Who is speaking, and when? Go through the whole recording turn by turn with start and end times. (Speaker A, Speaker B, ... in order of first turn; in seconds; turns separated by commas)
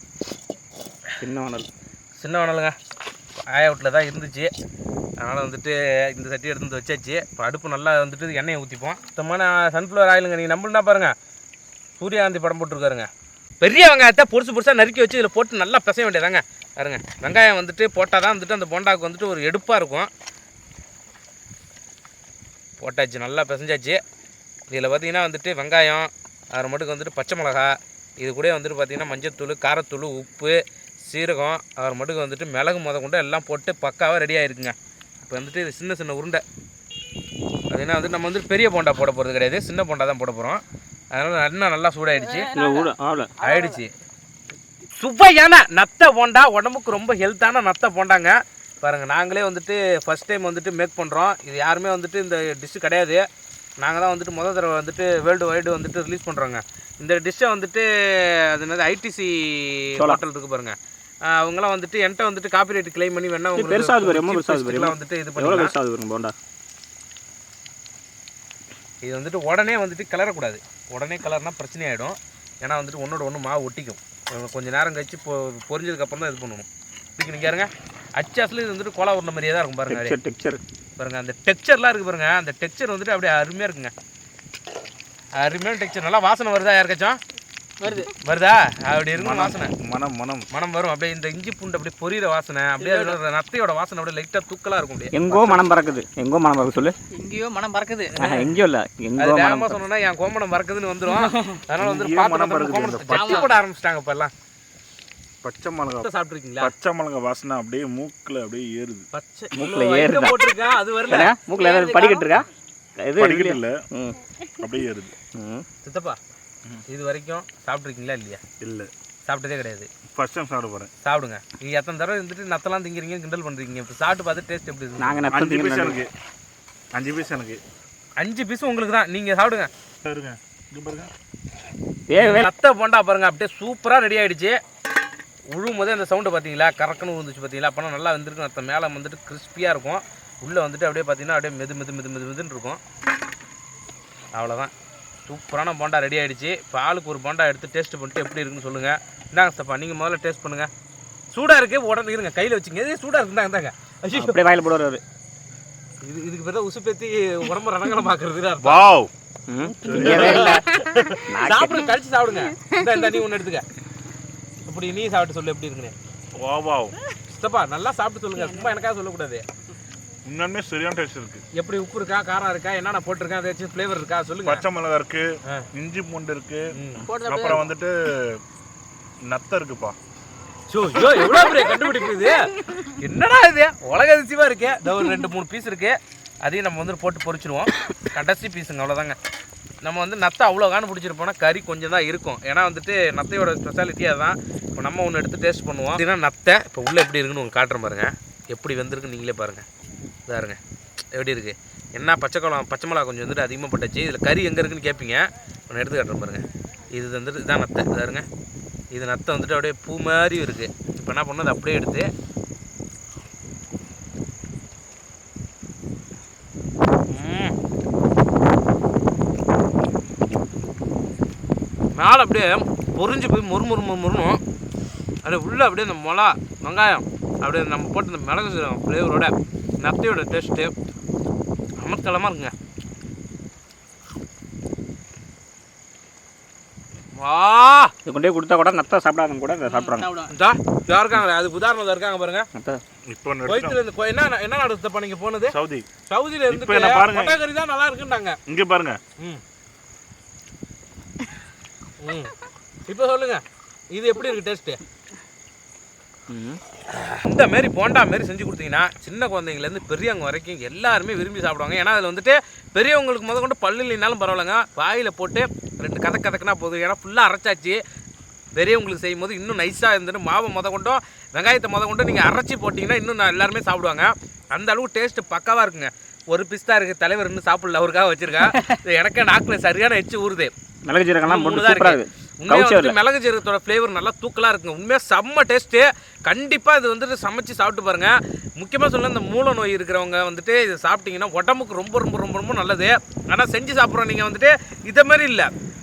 Speaker A: 1.2-1.7, Speaker B: 2.2-2.8, Speaker B: 3.5-4.5, Speaker B: 5.2-11.1, Speaker B: 12.0-13.1, Speaker B: 13.6-20.1, Speaker B: 22.8-24.0, Speaker B: 24.7-36.4, Speaker B: 37.7-42.5, Speaker C: 42.1-43.8, Speaker A: 42.5-43.3, Speaker B: 43.4-43.9, Speaker B: 44.9-53.3, Speaker B: 53.8-65.7, Speaker A: 60.0-60.2, Speaker A: 63.5-66.3, Speaker B: 69.0-80.2, Speaker A: 79.9-80.6, Speaker B: 81.0-83.9, Speaker B: 85.4-87.2, Speaker C: 87.8-88.1, Speaker B: 88.2-89.7, Speaker D: 89.2-90.5, Speaker B: 90.5-95.1, Speaker C: 92.8-93.2, Speaker A: 95.1-97.0, Speaker D: 95.3-95.6, Speaker C: 97.1-98.3, Speaker A: 98.2-99.8, Speaker B: 99.2-104.3, Speaker C: 101.1-101.6, Speaker D: 101.8-103.5, Speaker C: 103.1-103.5, Speaker D: 105.4-109.1, Speaker B: 106.0-106.7, Speaker B: 109.1-111.3, Speaker A: 109.5-110.5, Speaker A: 111.1-112.5, Speaker C: 111.5-112.4, Speaker A: 113.0-114.2, Speaker D: 113.2-113.8, Speaker D: 114.6-115.1, Speaker A: 115.3-115.7, Speaker B: 115.8-116.2, Speaker B: 116.9-118.4, Speaker D: 118.6-118.9, Speaker B: 119.3-119.9, Speaker D: 120.1-120.9, Speaker B: 121.0-125.3, Speaker A: 125.0-126.0, Speaker D: 125.3-126.1, Speaker D: 126.9-127.6, Speaker B: 128.2-129.7, Speaker D: 130.0-131.1, Speaker A: 132.1-132.5, Speaker B: 132.2-134.6, Speaker B: 135.5-142.8, Speaker B: 144.3-144.7, Speaker B: 145.3-150.7, Speaker B: 151.3-154.4, Speaker A: 154.1-155.0, Speaker B: 156.0-158.8, Speaker D: 158.6-159.1, Speaker A: 159.5-161.9, Speaker D: 159.8-160.6, Speaker B: 159.8-163.7, Speaker B: 164.7-165.9, Speaker D: 166.4-167.0, Speaker B: 167.3-169.4, Speaker D: 170.3-171.4, Speaker B: 171.6-174.6, Speaker D: 174.4-178.4, Speaker B: 176.7-177.1, Speaker C: 177.1-177.7, Speaker D: 179.2-180.0, Speaker B: 180.7-189.2, Speaker B: 189.8-199.7, Speaker B: 200.3-200.6, Speaker B: 201.1-208.2, Speaker B: 208.9-212.1, Speaker B: 217.1-217.6, Speaker B: 221.9-224.4, Speaker B: 225.2-230.7, Speaker B: 231.8-232.5, Speaker B: 237.2-237.9, Speaker A: 238.1-240.1, Speaker C: 239.7-240.3, Speaker B: 240.3-242.5, Speaker A: 242.6-242.8, Speaker D: 243.1-243.8, Speaker B: 243.4-245.6, Speaker D: 245.5-245.9, Speaker B: 246.1-248.4, Speaker D: 246.5-247.4, Speaker D: 248.5-249.0, Speaker B: 252.0-252.3, Speaker B: 252.9-254.8, Speaker A: 256.3-256.6, Speaker B: 257.1-267.8, Speaker B: 268.6-280.5, Speaker A: 280.9-283.0, Speaker B: 281.3-295.5